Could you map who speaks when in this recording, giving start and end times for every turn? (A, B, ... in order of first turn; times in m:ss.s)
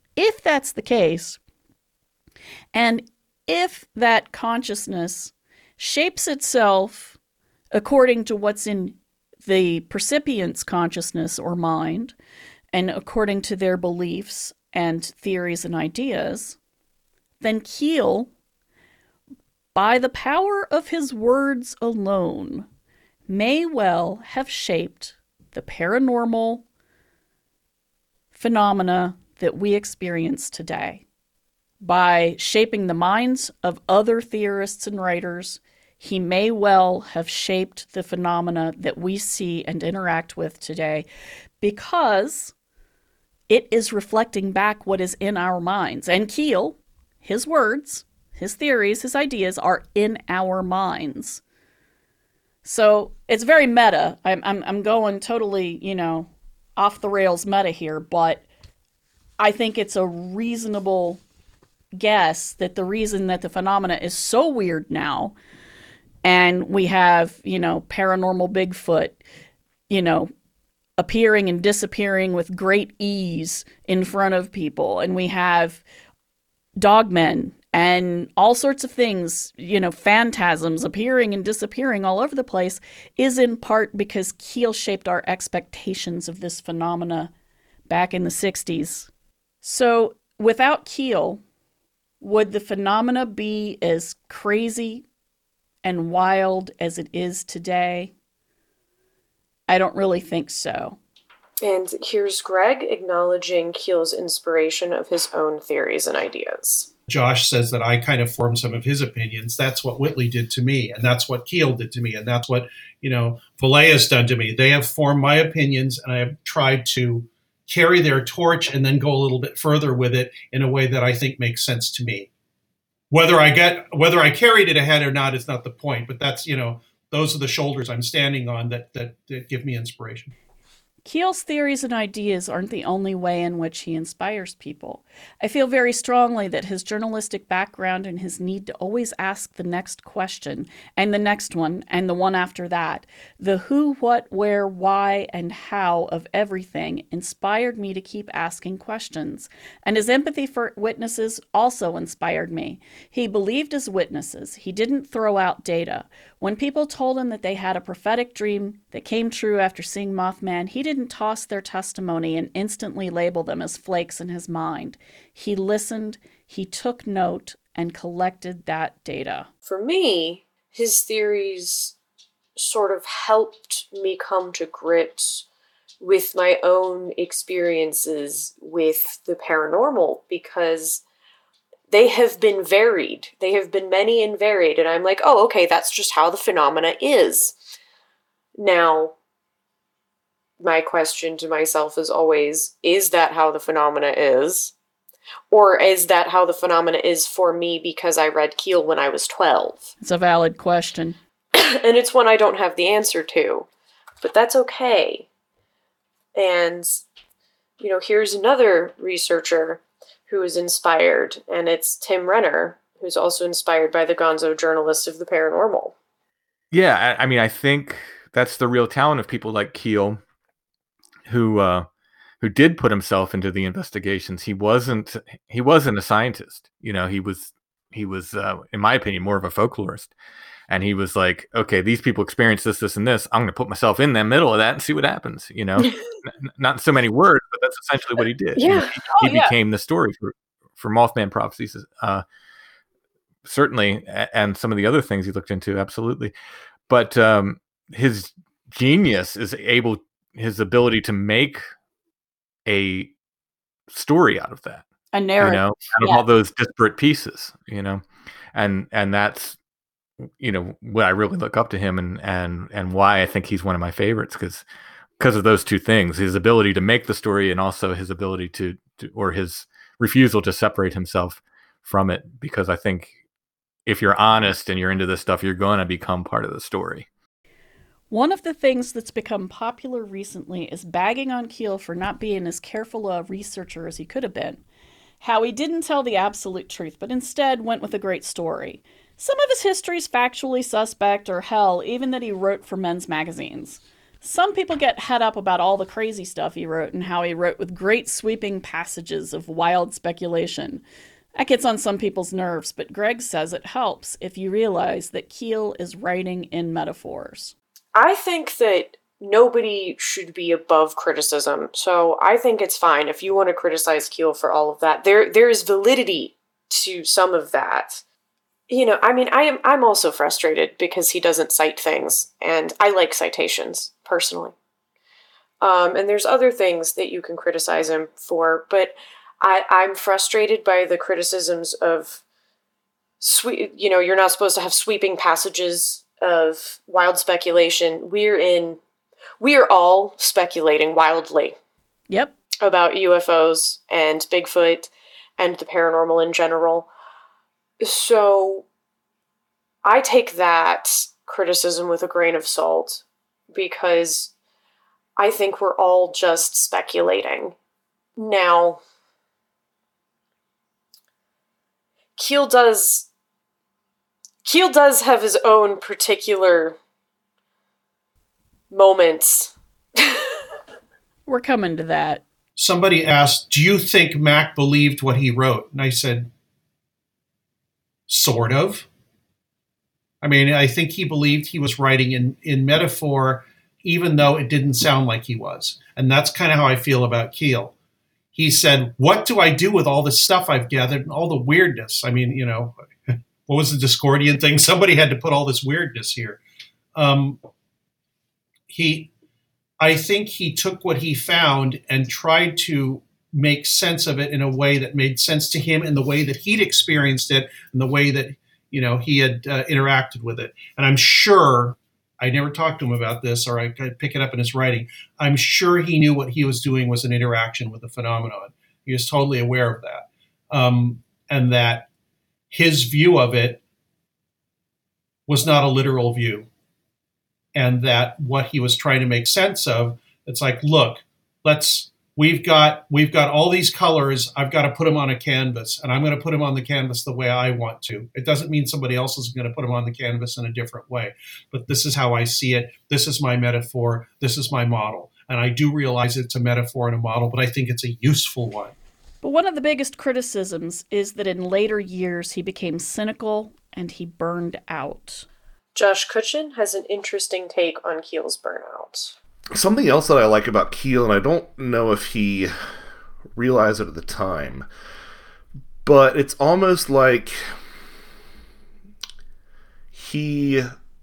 0:00.2-0:01.4 A
0:02.7-0:07.2 A
0:07.7-0:12.1 A
0:12.7-0:16.6 A
0:17.4-0:18.3 A
0:19.7-0:22.7 A
0:23.3-0:26.6 A
0:28.3-0:31.0 A
0:31.8-0:41.0 A
0:41.6-0:42.5 A
0:43.5-0:51.4 A
0:52.6-0:58.4 A
0:59.4-1:01.2 A
1:01.9-1:05.3 A
1:06.2-1:09.2 A
1:09.9-1:10.3 A
1:11.0-1:15.8 A
1:16.8-1:27.3 A
1:27.9-1:29.1 A
1:29.6-1:31.4 A
1:32.2-1:35.0 A
1:35.8-1:38.1 A
1:39.7-1:41.0 A
1:41.6-1:46.9 B
1:47.1-2:02.3 C
2:03.1-2:10.3 C
2:11.0-2:49.5 A
2:49.7-2:51.9 B
2:52.6-2:55.4 B
2:56.0-3:01.0 B
3:01.9-3:07.6 B
3:08.6-3:09.1 B
3:10.6-3:14.7 B
3:15.5-3:19.9 B
3:20.0-3:21.2 A
3:21.5-3:23.7 B
3:24.2-3:25.3 B
3:26.3-3:27.0 B
3:27.8-3:35.9 B
3:36.7-3:40.2 D
3:41.2-3:41.9 D
3:42.4-3:50.1 D
3:50.7-4:02.2 D
3:58.6-3:59.5 B
4:03.4-4:06.3 D
4:06.9-4:11.6 D
4:12.7-4:13.1 D
4:13.9-4:14.9 D
4:15.1-4:16.2 A
4:15.4-4:19.6 D
4:20.2-4:24.6 D
4:25.2-4:33.1 D
4:33.9-4:37.1 D
4:38.1-4:44.6 A
4:45.2-5:00.8 A
5:01.4-5:07.5 A
5:07.9-5:18.0 B
5:18.7-5:24.5 B
5:25.6-5:32.2 B
5:33.2-5:38.8 B
5:39.4-5:41.6 B
5:42.6-5:46.9 B
5:47.8-5:48.6 B
5:49.8-5:54.3 B
5:55.2-5:57.6 B
5:58.2-5:58.8 B
6:02.2-6:03.1 B
6:04.4-6:06.8 B
6:08.7-6:10.4 B
6:11.3-6:12.2 A
6:12.6-6:16.3 C
6:18.1-6:18.9 C
6:20.2-6:27.7 C
6:28.3-6:32.7 C
6:33.5-6:36.4 C
6:36.9-6:37.4 C
6:38.7-6:39.1 C
6:39.8-7:01.9 C
7:02.5-7:03.6 C
7:05.3-7:06.5 C
7:07.5-7:28.7 C
7:29.2-7:35.2 A
7:35.7-7:39.1 B
7:39.5-7:42.5 E
7:43.4-7:44.6 E
7:45.8-7:47.4 E
7:49.9-7:50.7 E